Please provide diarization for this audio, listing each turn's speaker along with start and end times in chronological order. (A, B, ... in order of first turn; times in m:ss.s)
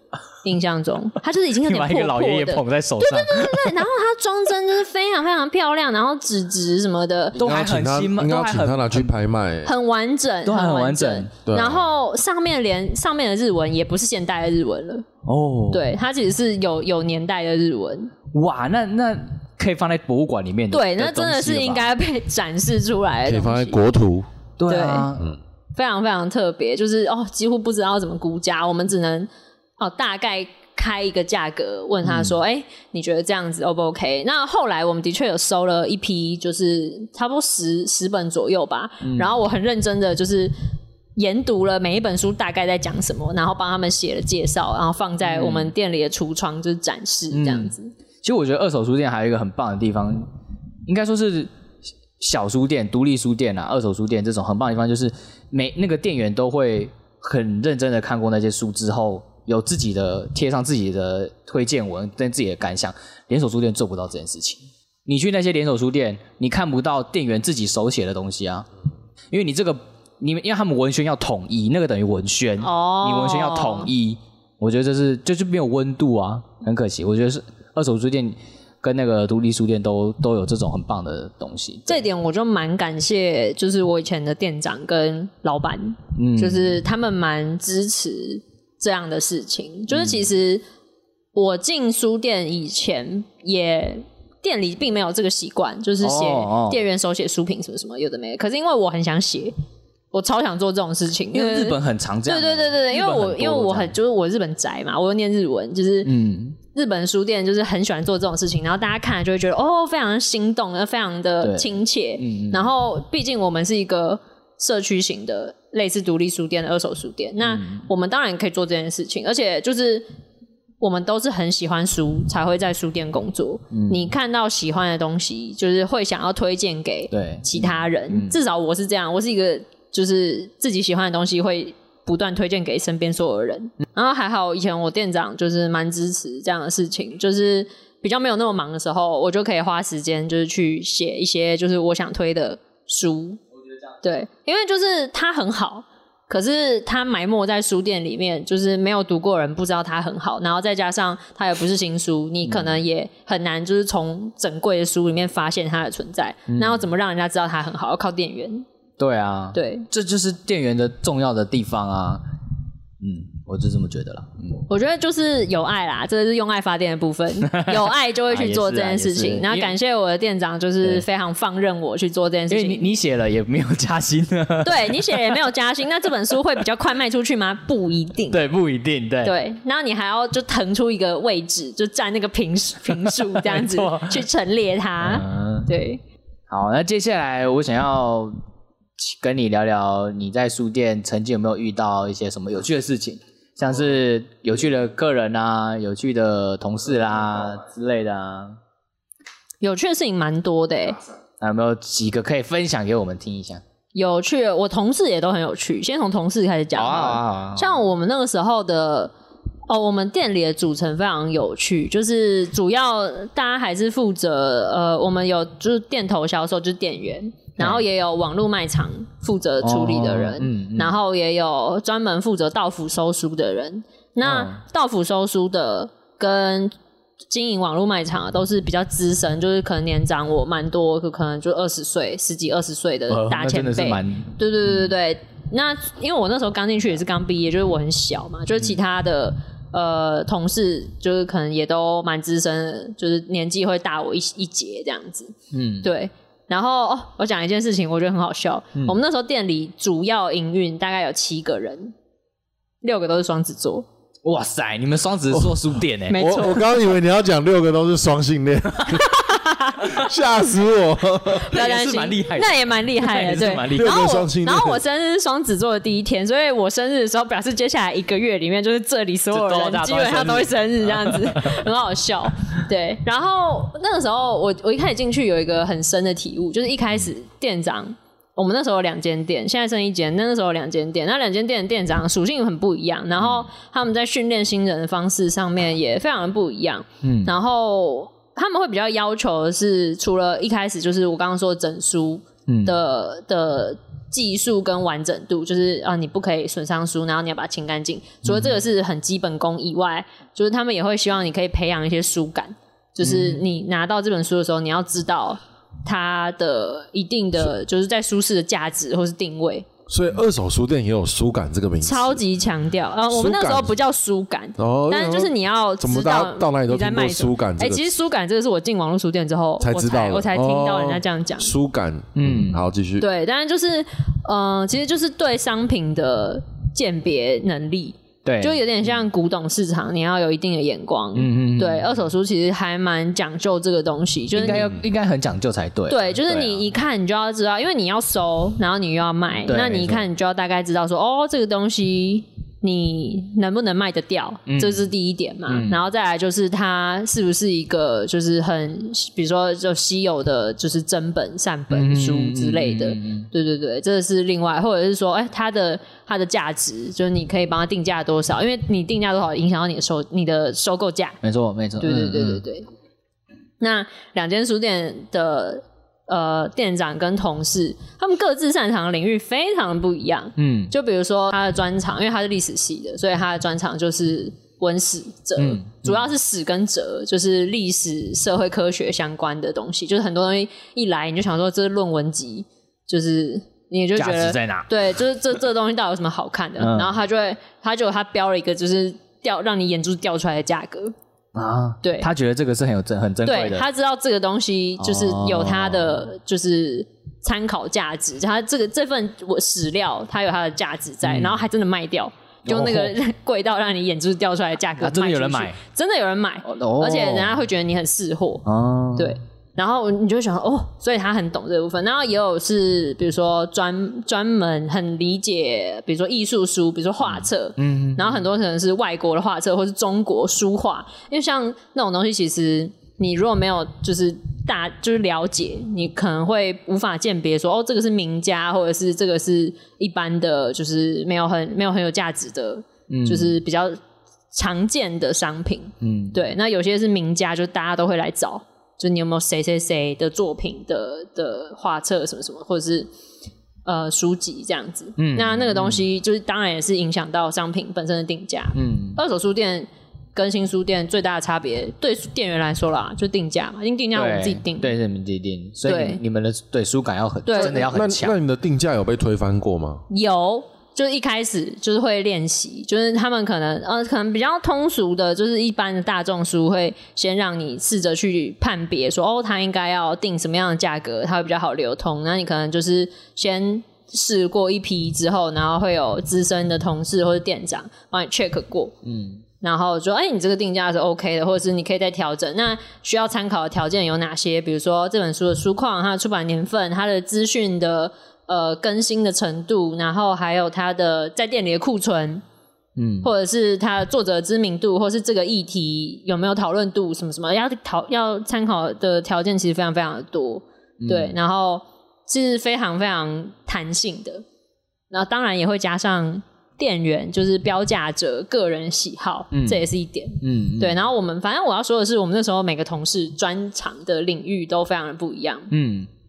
0:00.4-0:07.4 A
0:01.6-0:03.8 B
0:07.3-0:09.7 C
0:07.4-0:09.1 B
0:09.6-0:15.0 A
0:10.4-0:11.3 B
0:11.4-0:11.8 C
0:15.2-0:15.8 B
0:15.7-0:18.1 A
0:18.3-0:21.9 B
0:20.7-0:23.8 A
0:23.2-0:24.3 C
0:24.6-0:25.3 B
0:24.7-0:25.1 A
0:25.8-0:40.5 A
0:32.0-0:32.3 B
0:39.0-0:39.3 B
0:41.2-0:47.9 A
0:45.2-0:45.7 B
0:47.3-0:50.3 B
0:50.9-0:51.5 B
0:52.2-1:08.7 B
1:09.3-1:22.0 B
1:12.6-1:13.9 A
1:21.9-1:30.6 A
1:26.2-1:26.8 B
1:29.9-1:30.2 B
1:31.3-1:39.5 A
1:36.0-1:36.8 B
1:40.1-1:46.1 A
1:41.3-1:43.9 B
1:46.0-1:46.6 B
1:46.7-2:00.1 A
1:51.4-1:52.7 B
1:57.4-1:57.8 B
2:00.8-2:23.4 A
2:03.7-2:04.1 B
2:07.1-2:08.4 B
2:24.0-2:38.6 A
2:32.4-2:32.8 B
2:36.5-2:36.8 B
2:39.0-2:42.2 B
2:39.5-2:39.9 A
2:43.0-2:44.6 B
2:44.7-2:52.9 A
2:47.4-2:49.7 B
2:52.5-2:55.3 B
2:54.6-2:58.4 A
2:58.3-2:59.3 B
2:59.2-3:06.0 A
3:03.2-3:04.2 B
3:05.0-3:05.7 B
3:06.5-3:08.4 B
3:09.0-3:18.6 B
3:19.6-3:21.0 A
3:21.4-3:23.6 B
3:23.9-3:29.1 A
3:26.7-3:27.8 B
3:29.7-3:46.7 A
3:39.6-3:40.9 B
3:44.2-3:44.6 B
3:47.3-4:11.9 A
3:53.1-3:54.4 B
4:05.5-4:05.9 B
4:12.8-4:13.8 A
4:14.2-4:16.2 B
4:16.1-4:16.6 A
4:16.1-4:19.3 C
4:19.1-4:20.1 A
4:19.8-4:21.5 C
4:21.4-4:24.0 B
4:21.4-5:09.6 A
4:23.7-4:24.8 C
4:29.3-4:31.6 B
4:43.2-4:43.5 B
4:47.0-4:47.3 B
4:52.5-4:52.8 B
4:58.2-4:58.6 B
5:03.0-5:03.4 B
5:09.9-5:12.2 C
5:11.8-5:21.5 A
5:13.1-5:13.7 C
5:14.6-5:17.9 C
5:19.6-5:23.0 C
5:22.1-5:22.6 B
5:23.0-5:34.8 A
5:28.2-5:28.6 B
5:31.1-5:32.0 B
5:34.3-5:36.6 B
5:35.9-6:01.2 A
5:39.5-5:40.0 B
5:44.5-5:44.8 B
5:45.5-5:45.8 B
5:51.7-5:53.3 B
6:01.2-6:02.4 B
6:01.8-6:02.7 A
6:03.6-6:30.9 A
6:10.4-6:10.7 B
6:15.4-6:16.1 B
6:24.0-6:24.7 B
6:26.6-6:26.9 B
6:31.3-6:33.6 B
6:31.8-6:32.1 A
6:33.2-6:48.4 A
6:34.8-6:36.0 B
6:41.0-6:41.4 B
6:42.5-6:42.9 B
6:44.8-6:45.6 B
6:46.4-6:47.4 B
6:48.4-6:49.1 B
6:49.0-7:13.8 A
6:57.0-6:58.2 B
7:12.9-7:13.3 B
7:14.3-7:22.9 A
7:15.8-7:16.2 B
7:23.6-7:34.7 A
7:25.0-7:25.8 B
7:28.5-7:29.0 B
7:33.9-7:38.2 B
7:35.6-7:36.0 A
7:37.2-7:37.6 A
7:37.5-7:39.8 C
7:39.9-7:58.7 A
7:58.8-7:59.2 B
7:59.4-8:12.2 A
8:12.8-8:13.1 B
8:13.0-8:24.2 A
8:20.8-8:21.1 B
8:24.9-8:35.5 A
8:29.3-8:29.6 B
8:30.2-8:30.8 B
8:35.5-8:35.9 B